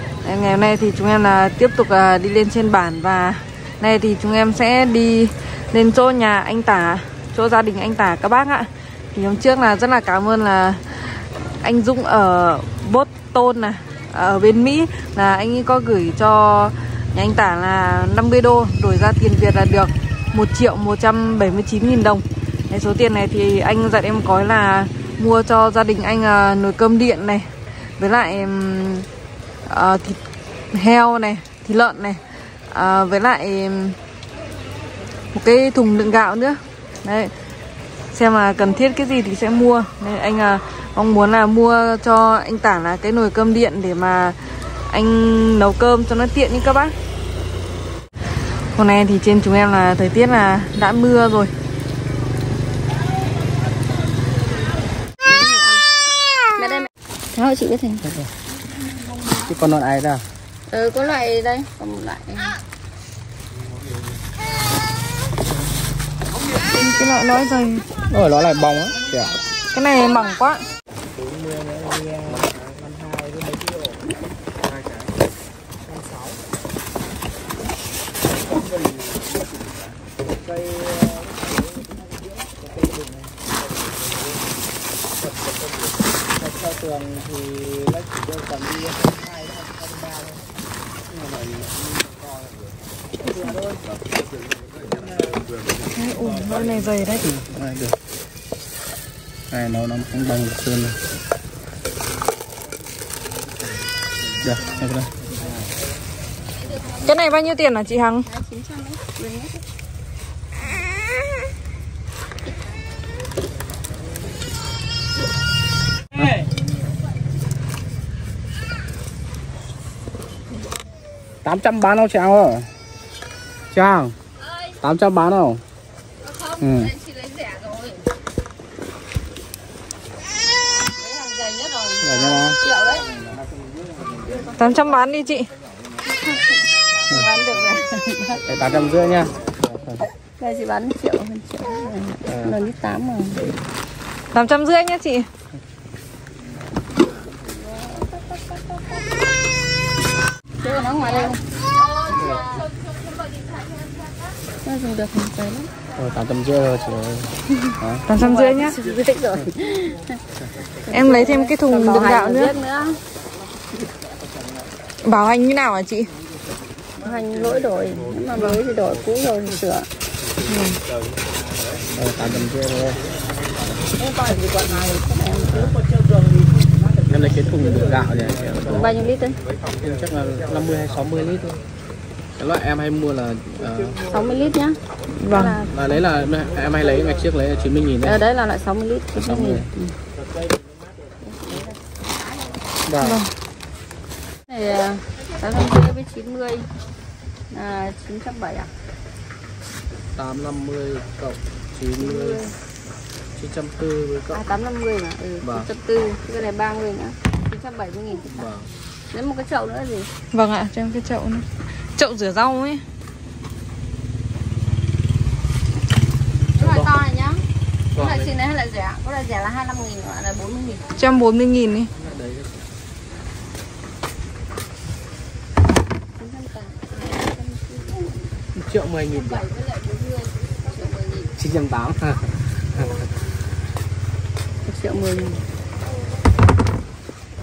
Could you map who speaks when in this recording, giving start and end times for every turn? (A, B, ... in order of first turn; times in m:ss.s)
0:00.2-0:29.1 A
0:29.7-0:30.2 A
0:30.7-0:34.0 A
0:35.3-0:37.3 A
0:38.1-0:47.0 A
0:48.7-0:51.5 A
0:55.2-0:55.8 B
0:56.6-0:58.0 B
0:59.4-1:00.2 C
1:00.7-1:02.6 B
1:06.7-1:07.9 A
1:08.1-1:09.4 C
1:09.7-1:10.6 A
1:11.1-1:14.0 C
1:14.6-1:15.1 C
1:15.9-1:16.4 C
1:18.5-1:19.5 C
1:20.4-1:21.5 C
1:22.5-1:23.4 C
1:26.4-1:30.4 C
1:31.1-1:31.6 C
1:33.3-1:33.8 C
1:36.0-1:37.3 A
1:37.2-1:38.0 C
1:39.5-1:41.0 C
1:44.4-1:45.1 C
1:47.0-1:48.3 A
1:48.3-1:49.6 B
1:56.2-1:56.4 C
2:01.4-2:02.7 C
2:03.7-2:04.2 C
2:04.8-2:05.6 C
2:06.3-2:08.0 B
2:06.6-2:06.9 C
2:11.0-2:13.1 B
2:12.0-2:12.6 C
2:14.2-2:14.6 B
2:14.6-2:15.5 A
2:16.1-2:16.5 B
2:17.1-2:18.6 B
2:18.4-2:20.0 C
2:20.4-2:23.4 B
2:22.3-2:22.6 C
2:24.3-2:25.3 A
2:27.4-2:29.0 B
2:30.6-2:32.7 B
2:34.6-2:35.7 B
2:36.0-2:38.0 C
2:37.7-2:40.2 B
2:38.1-2:38.8 A
2:40.8-2:43.0 B
2:40.9-2:42.5 A
2:45.0-2:46.1 A
2:47.0-2:49.9 B
2:48.3-2:48.6 A
2:50.5-2:50.8 A
2:51.9-2:53.1 C
2:54.0-2:55.8 B
2:57.1-2:58.9 C
2:58.7-2:59.4 B
2:59.8-3:01.6 C
3:02.4-3:04.1 C
3:04.1-3:04.8 B
3:05.2-3:05.6 A
3:05.3-3:05.7 B
3:05.6-3:08.2 C
3:08.0-3:10.0 B
3:09.2-3:09.7 C
3:11.2-3:12.0 B
3:12.9-3:13.2 C
3:13.0-3:13.3 A
3:14.5-3:16.7 B
3:17.5-3:18.7 B
3:20.2-3:22.4 C
3:22.0-3:22.5 B
3:23.4-3:24.4 C
3:24.3-3:28.5 B
3:25.4-3:25.7 C
3:28.3-3:28.7 C
3:29.1-3:30.1 B
3:30.3-3:32.8 A
3:36.6-3:37.4 B
3:36.6-3:36.9 C
3:38.0-3:38.3 C
3:38.0-3:40.8 B
3:41.0-3:41.9 A
3:41.9-3:42.6 C
3:46.2-3:48.4 B
3:48.6-3:49.5 C
3:49.2-3:51.3 B
3:51.4-3:52.9 C
3:54.6-3:55.4 B